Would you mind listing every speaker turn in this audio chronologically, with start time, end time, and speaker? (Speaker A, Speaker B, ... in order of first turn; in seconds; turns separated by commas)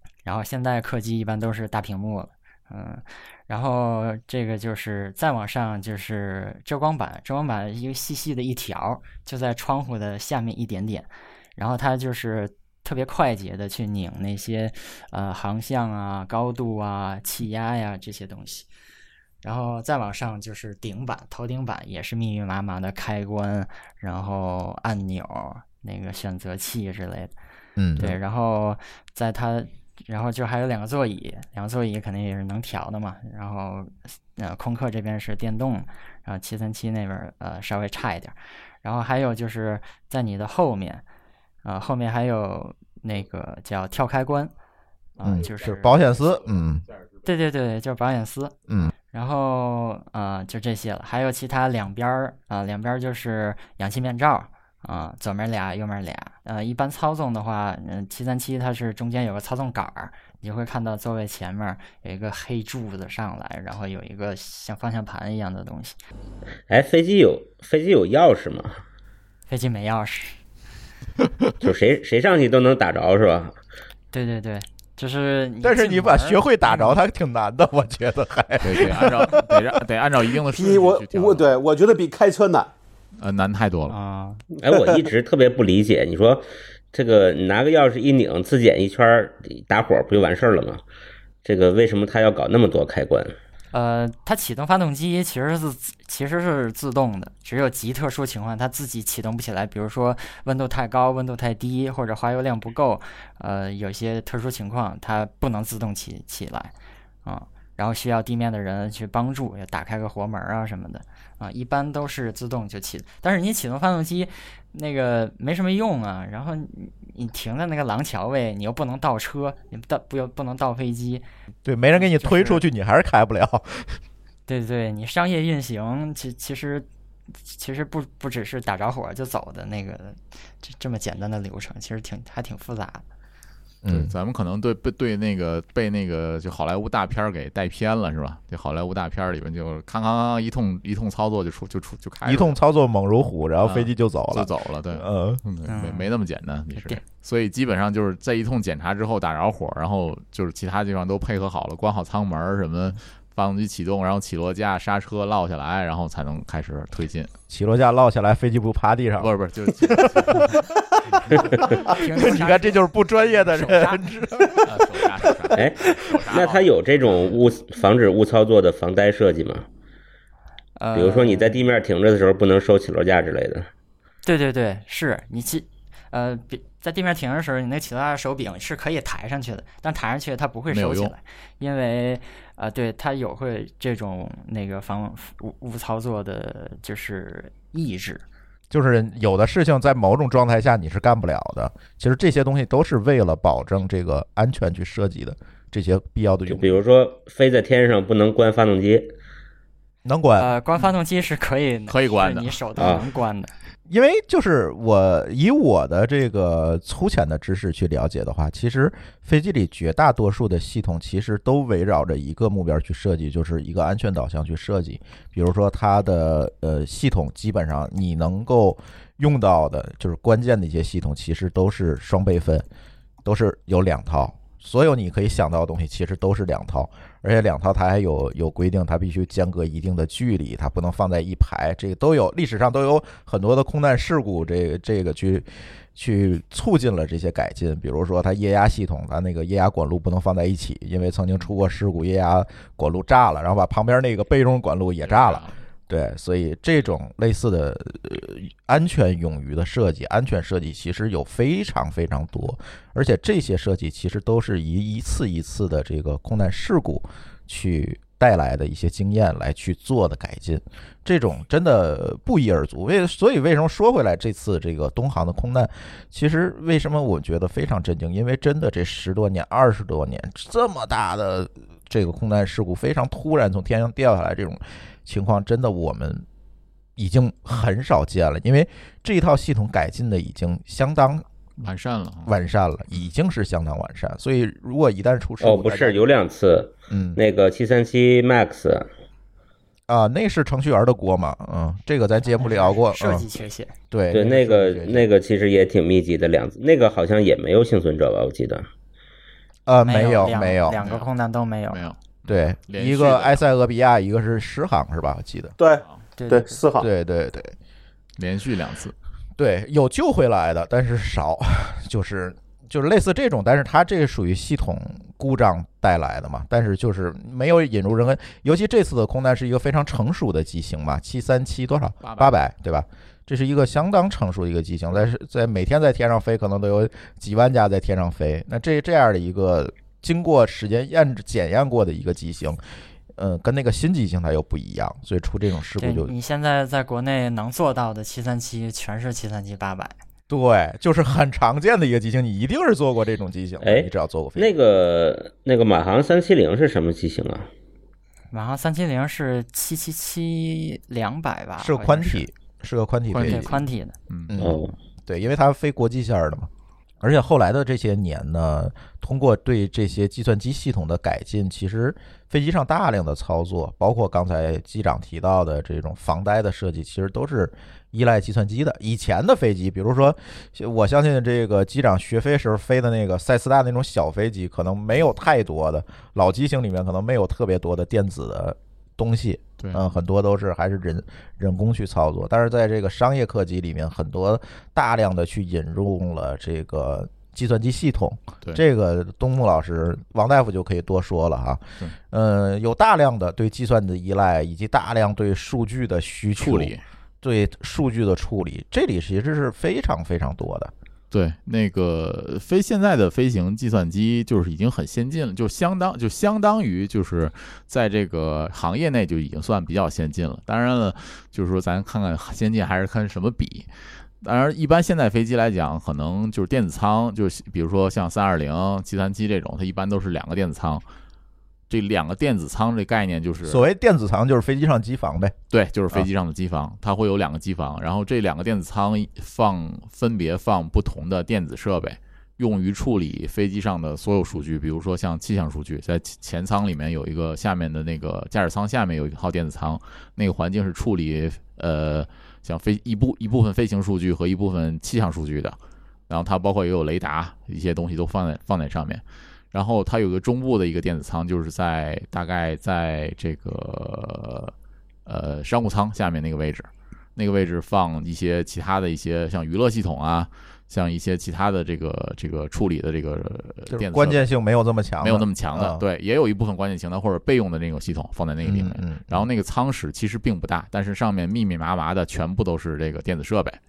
Speaker A: 0.2-18.7, Speaker A: 19.4-27.3, Speaker B: 27.8-28.1, Speaker A: 28.0-41.0, Speaker A: 41.6-44.5, Speaker A: 45.2-46.1, Speaker B: 45.2-46.9, Speaker A: 47.2-48.5, Speaker A: 49.1-66.0, Speaker C: 66.7-68.8, Speaker A: 69.5-70.4, Speaker C: 71.6-73.5, Speaker A: 74.1-77.0, Speaker B: 75.6-79.8, Speaker D: 78.6-81.5, Speaker E: 80.5-82.7, Speaker D: 83.2-84.0, Speaker A: 83.9-84.4, Speaker C: 84.6-90.8, Speaker E: 84.7-84.9, Speaker C: 91.4-93.3, Speaker A: 93.7-106.7, Speaker A: 107.2-121.2, Speaker B: 121.6-124.0, Speaker A: 121.9-122.6, Speaker A: 124.5-126.8, Speaker A: 127.4-133.0, Speaker B: 133.8-134.1, Speaker D: 133.9-142.6, Speaker B: 142.2-145.4, Speaker D: 143.6-157.3, Speaker A: 145.7-146.1, Speaker A: 146.7-147.0, Speaker B: 157.5-159.3, Speaker D: 159.2-161.9, Speaker B: 159.8-160.6, Speaker B: 161.4-165.6, Speaker A: 161.8-164.0, Speaker D: 164.5-166.7, Speaker C: 165.5-169.7, Speaker A: 170.8-171.6, Speaker C: 170.9-173.7, Speaker A: 174.2-188.2, Speaker D: 180.7-181.1, Speaker B: 188.7-196.8, Speaker C: 196.5-199.1, Speaker B: 200.0-200.5, Speaker A: 200.4-203.5, Speaker D: 201.9-202.6, Speaker C: 202.8-203.0, Speaker B: 203.9-222.7, Speaker B: 223.2-276.2, Speaker D: 245.1-245.5, Speaker B: 277.0-281.2, Speaker D: 281.6-282.3, Speaker B: 282.2-286.0, Speaker C: 285.4-288.9, Speaker B: 286.9-287.2, Speaker B: 289.9-293.3, Speaker A: 292.3-293.7, Speaker B: 293.9-295.1, Speaker C: 294.1-298.7, Speaker B: 299.7-300.8, Speaker A: 299.8-301.8, Speaker D: 300.8-301.1, Speaker D: 301.7-303.4, Speaker B: 302.3-305.6, Speaker E: 305.6-306.9, Speaker A: 306.1-306.6, Speaker B: 306.8-307.5, Speaker D: 308.2-308.9, Speaker B: 309.4-332.6, Speaker D: 322.0-322.3, Speaker B: 333.1-336.1, Speaker A: 335.8-339.9, Speaker B: 340.3-344.5, Speaker C: 343.6-347.5, Speaker A: 348.3-352.3, Speaker B: 351.6-353.5, Speaker D: 353.1-354.4, Speaker A: 353.2-353.9, Speaker B: 354.3-356.5, Speaker C: 354.4-354.7, Speaker B: 357.0-400.7, Speaker D: 379.6-379.8, Speaker D: 396.4-396.8, Speaker D: 401.1-413.7, Speaker D: 414.2-420.8, Speaker D: 421.7-423.6, Speaker B: 423.4-425.3, Speaker D: 425.5-445.6, Speaker D: 446.1-454.5, Speaker D: 455.1-464.2, Speaker B: 463.7-465.8, Speaker D: 465.0-473.6, Speaker B: 468.4-469.3